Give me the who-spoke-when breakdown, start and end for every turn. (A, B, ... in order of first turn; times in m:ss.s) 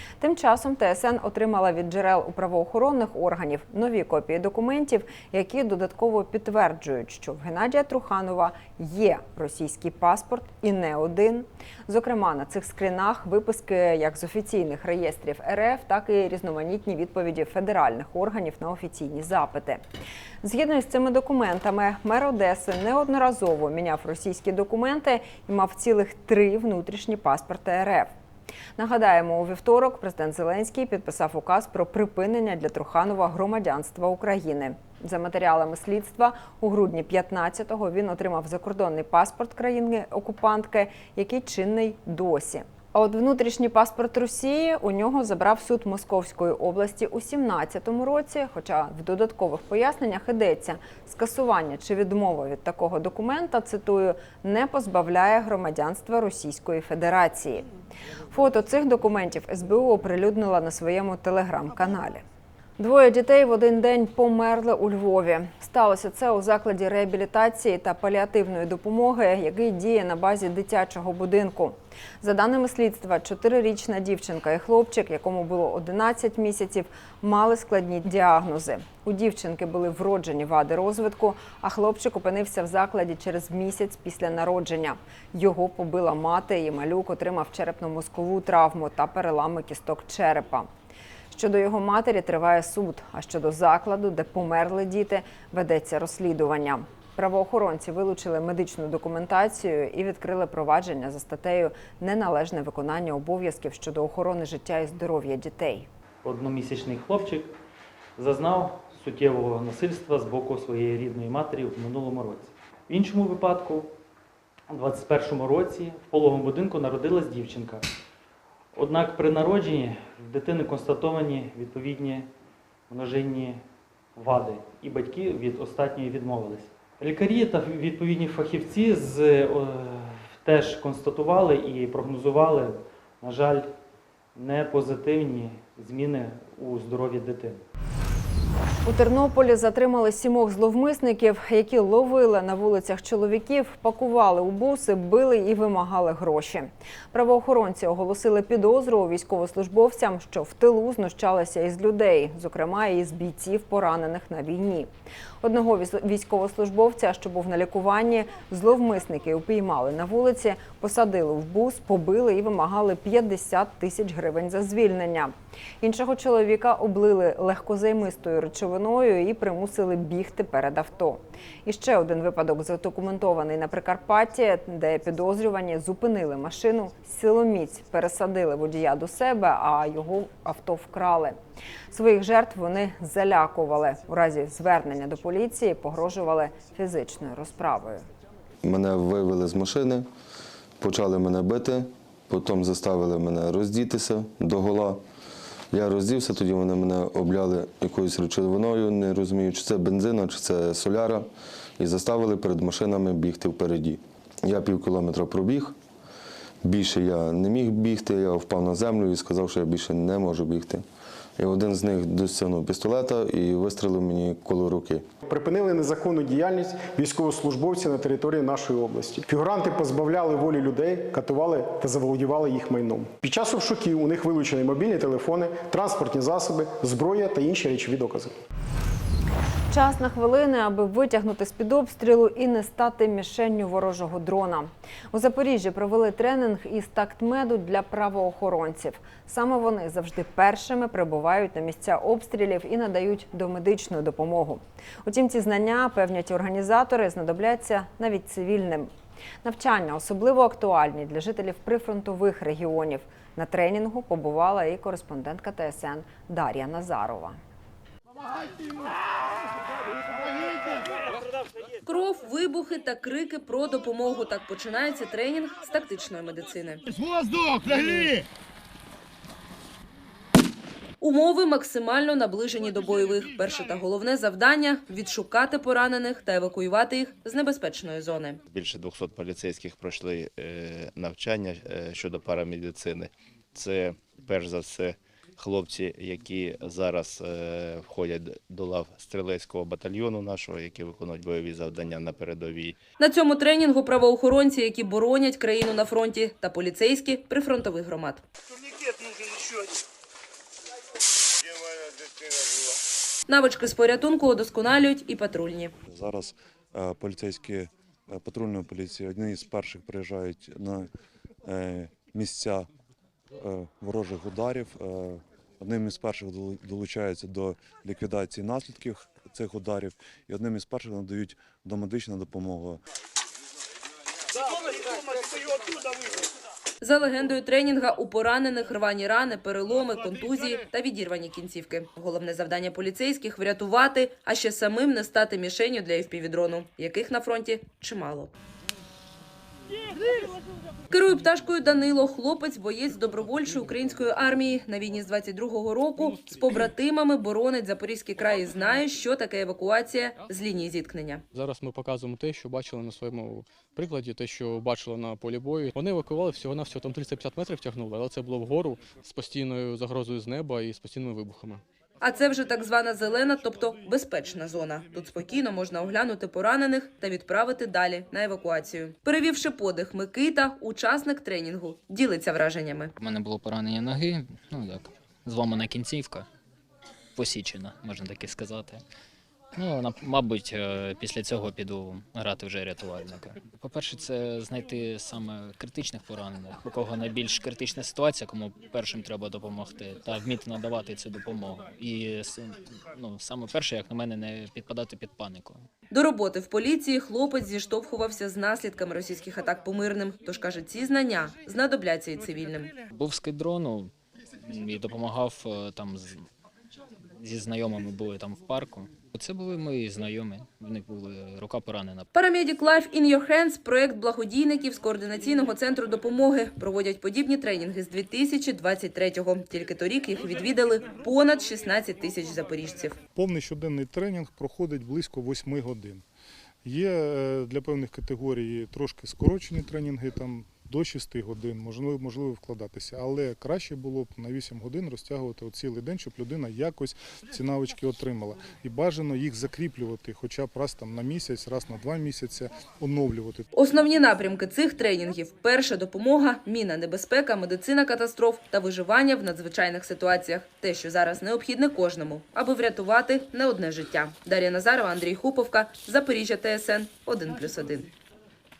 0:00.2-0:19.8 A
0:20.4-0:28.1 A
0:28.8-0:57.7 A
0:58.3-1:02.2 A
1:02.8-1:30.7 A
1:31.3-1:45.9 A
1:46.2-1:47.6 B
1:48.2-1:53.9 B
1:54.7-1:57.9 B
1:58.7-2:02.3 B
2:02.9-2:03.6 B
2:04.2-2:13.7 B
2:14.4-2:17.6 B
2:18.8-2:34.9 A
2:35.4-3:01.4 A
3:01.9-3:08.1 A
3:08.6-3:10.1 C
3:10.8-3:15.0 C
3:15.7-3:21.3 C
3:21.8-3:25.8 C
3:26.6-3:30.8 C
3:31.4-3:35.0 C
3:35.3-3:48.3 D
3:49.7-4:08.9 A
4:09.4-4:17.4 A
4:21.9-4:26.8 E
4:27.6-4:28.2 E
4:31.0-4:38.4 E
4:38.5-4:52.8 F
4:53.0-4:58.2 E
5:03.3-5:05.7 E
5:05.9-5:10.9 G
5:11.4-5:12.7 G
5:13.4-5:22.8 G
5:26.8-5:38.3 E
5:40.9-5:51.2 E
5:51.3-6:01.6 H
6:02.0-6:12.9 E
6:13.0-6:16.3 I
6:17.2-6:18.8 I
6:19.6-6:35.7 I
6:35.9-6:42.8 E
6:42.9-6:46.3 I
6:47.2-6:52.1 I
6:52.1-7:03.0 E
7:03.2-7:06.0 J
7:06.6-7:23.5 J
7:23.6-7:37.9 E